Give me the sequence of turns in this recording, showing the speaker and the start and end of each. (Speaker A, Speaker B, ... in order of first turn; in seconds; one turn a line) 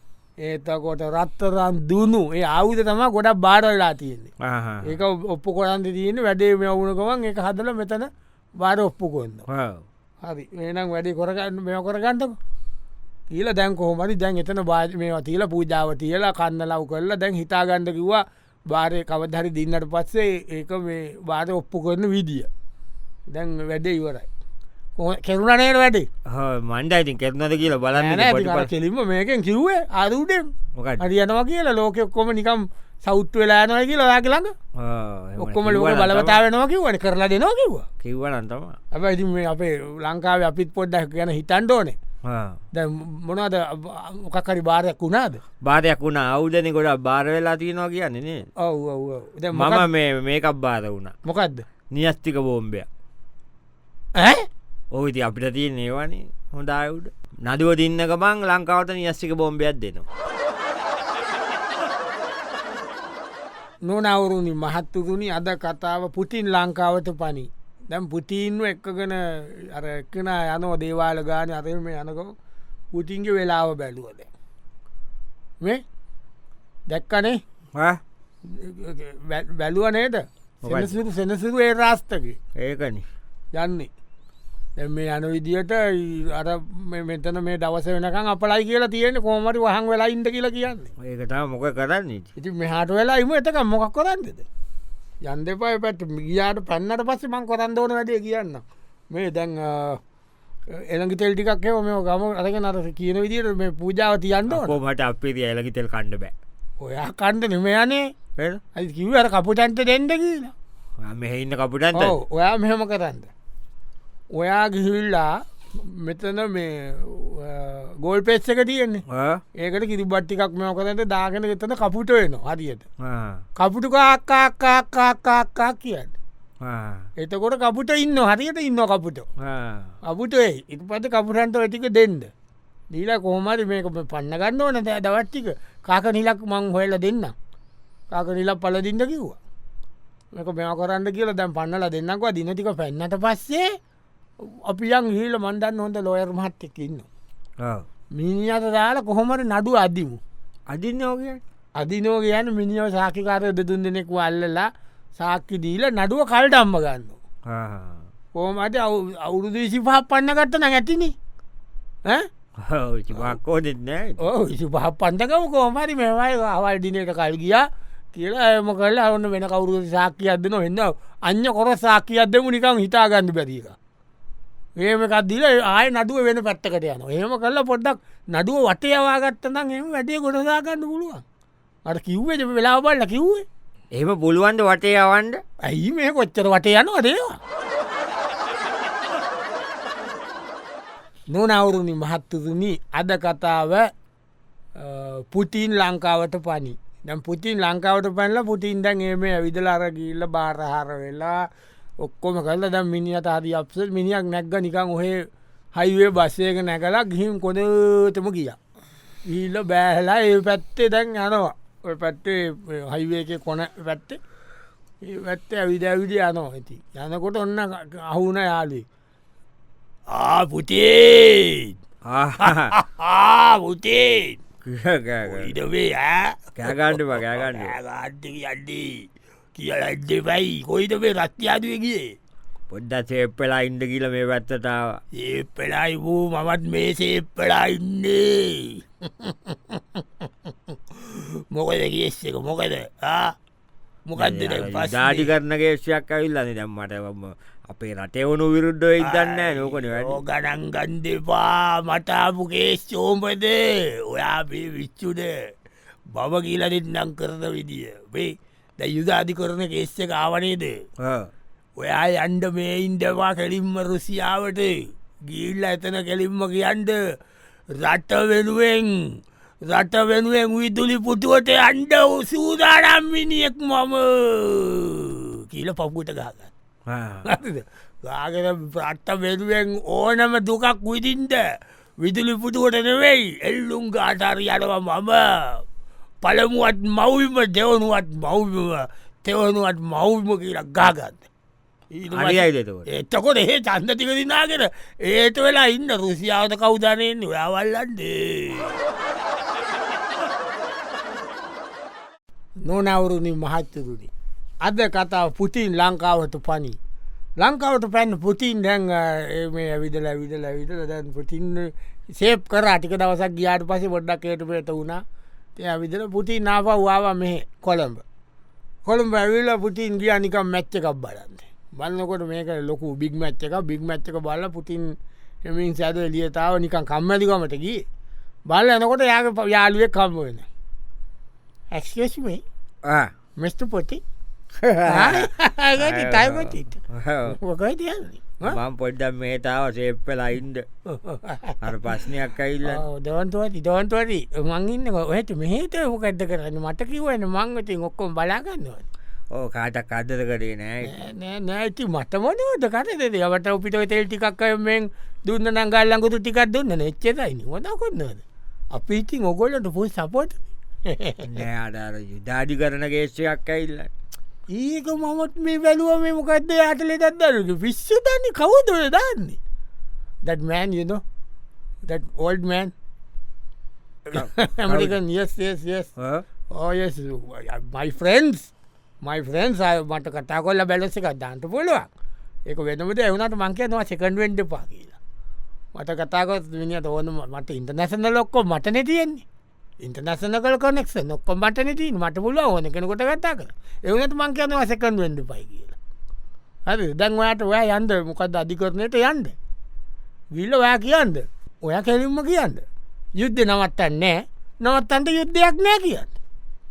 Speaker A: 0.4-4.3
Speaker B: 4.4-5.0
Speaker A: 4.8-9.5
Speaker B: 9.5-9.8
Speaker A: 10.2-12.3
Speaker A: 13.3-22.5
Speaker A: 23.3-24.3
Speaker A: 25.0-26.1
Speaker B: 26.2-28.7
Speaker A: 27.9-34.5
Speaker B: 30.8-31.1
Speaker B: 34.8-36.4
Speaker A: 35.4-37.9
Speaker B: 38.0-38.8
Speaker A: 38.9-42.0
Speaker B: 42.2-42.6
Speaker A: 42.7-45.4
Speaker B: 45.6-48.5
Speaker A: 48.6-49.9
Speaker B: 49.5-51.1
Speaker A: 51.2-51.6
Speaker B: 51.9-52.9
Speaker A: 54.1-54.4
Speaker B: 54.9-60.0
Speaker A: 63.8-72.3
Speaker A: 72.9-74.3
Speaker A: 76.9-77.4
Speaker B: 77.7-78.0
Speaker A: 78.4-82.4
Speaker B: 80.6-80.9
Speaker B: 82.5-83.0
Speaker A: 83.5-83.9
Speaker A: 84.8-90.9
Speaker B: 91.0-92.3
Speaker A: 92.3-94.5
Speaker A: 95.2-100.0
Speaker A: 100.7-104.8
Speaker B: 104.5-106.3
Speaker A: 106.8-108.1
Speaker B: 108.4-108.6
Speaker A: 108.7-110.5
Speaker B: 111.0-112.2
Speaker A: 111.9-113.3
Speaker A: 114.3-119.0
Speaker B: 119.1-119.4
Speaker A: 119.6-122.8
Speaker B: 123.0-123.4
Speaker A: 123.6-126.1
Speaker B: 126.6-127.1
Speaker A: 127.2-129.3
Speaker B: 129.4-129.9
Speaker A: 130.0-132.3
Speaker A: 132.9-137.3
Speaker A: 138.1-139.4
Speaker A: 140.3-143.8
Speaker A: 144.4-147.1
Speaker B: 147.6-147.8
Speaker A: 148.1-150.2
Speaker B: 150.7-151.4
Speaker A: 151.8-157.2
Speaker B: 157.5-158.0
Speaker A: 158.3-161.1
Speaker B: 162.6-164.2
Speaker A: 163.1-163.4
Speaker A: 164.2-173.8
Speaker A: 174.8-181.2
Speaker A: 181.8-183.4
Speaker B: 183.9-185.4
Speaker A: 185.6-187.4
Speaker A: 191.3-193.9
Speaker A: 194.8-201.5
Speaker A: 202.0-208.6
Speaker A: 209.2-214.2
Speaker A: 215.0-218.8
Speaker A: 220.1-221.7
Speaker B: 222.0-222.7
Speaker A: 222.4-224.4
Speaker B: 224.6-225.5
Speaker A: 225.2-232.1
Speaker B: 226.6-227.8
Speaker B: 232.7-235.0
Speaker A: 235.2-240.0
Speaker A: 240.7-243.3
Speaker A: 244.1-245.3
Speaker B: 244.2-250.2
Speaker A: 249.0-255.3
Speaker A: 256.1-260.8
Speaker B: 261.0-261.3
Speaker A: 261.8-267.0
Speaker A: 267.7-276.5
Speaker B: 276.9-277.3
Speaker A: 277.2-281.4
Speaker A: 282.0-285.6
Speaker A: 286.2-291.3
Speaker A: 291.9-298.8
Speaker B: 292.1-292.9
Speaker A: 302.6-304.1
Speaker A: 304.6-306.8
Speaker A: 307.4-315.0
Speaker A: 315.6-318.0
Speaker A: 318.8-327.8
Speaker A: 328.5-330.5
Speaker A: 331.7-332.4
Speaker B: 332.8-333.1
Speaker A: 333.4-334.0
Speaker B: 334.6-337.4
Speaker A: 334.8-338.6
Speaker B: 338.4-340.6
Speaker A: 340.9-341.7
Speaker B: 341.6-342.8
Speaker A: 342.6-348.9
Speaker B: 349.3-350.9
Speaker A: 350.8-361.4
Speaker B: 361.2-363.9
Speaker A: 364.5-369.4
Speaker A: 370.2-371.0
Speaker A: 371.9-372.7
Speaker A: 374.1-375.9
Speaker B: 374.1-375.0
Speaker B: 376.0-376.2
Speaker A: 376.5-378.5
Speaker A: 379.0-381.9
Speaker A: 382.5-385.0
Speaker A: 385.7-389.2
Speaker A: 389.8-395.8
Speaker A: 396.7-399.4
Speaker A: 400.3-402.6
Speaker A: 403.2-406.1